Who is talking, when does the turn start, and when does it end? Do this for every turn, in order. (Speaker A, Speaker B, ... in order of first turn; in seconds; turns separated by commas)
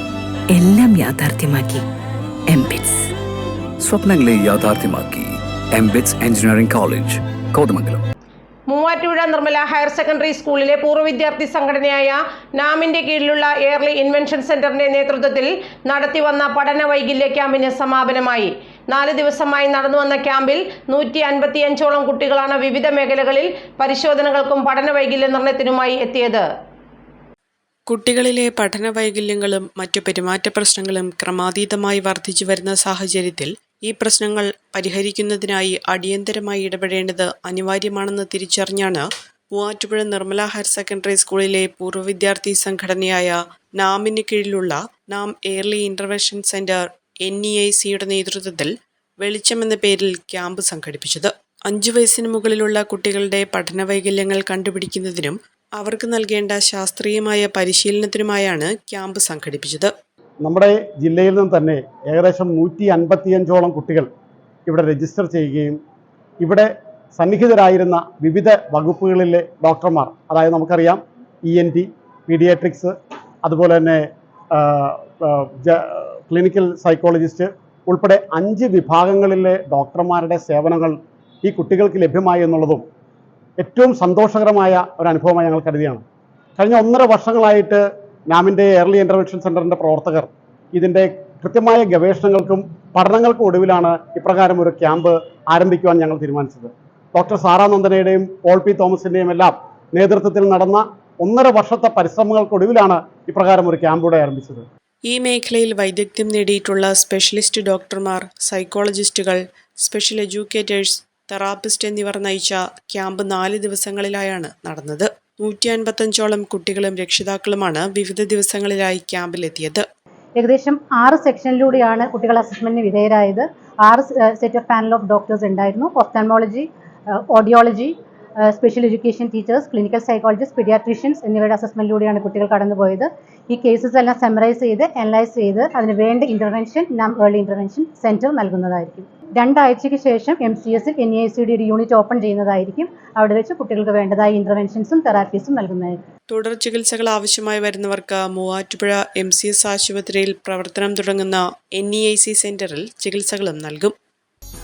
Speaker A: 0.5-1.9, Speaker A: 2.5-3.1, Speaker B: 3.8-8.1, Speaker C: 8.7-26.4, Speaker D: 27.9-59.9, Speaker E: 60.4-64.1, Speaker E: 64.7-65.8, Speaker E: 66.4-72.9, Speaker E: 73.4-74.0, Speaker E: 74.5-82.8, Speaker E: 83.6-86.0, Speaker E: 86.6-104.7, Speaker D: 105.0-119.8, Speaker F: 120.4-146.0, Speaker D: 146.3-153.9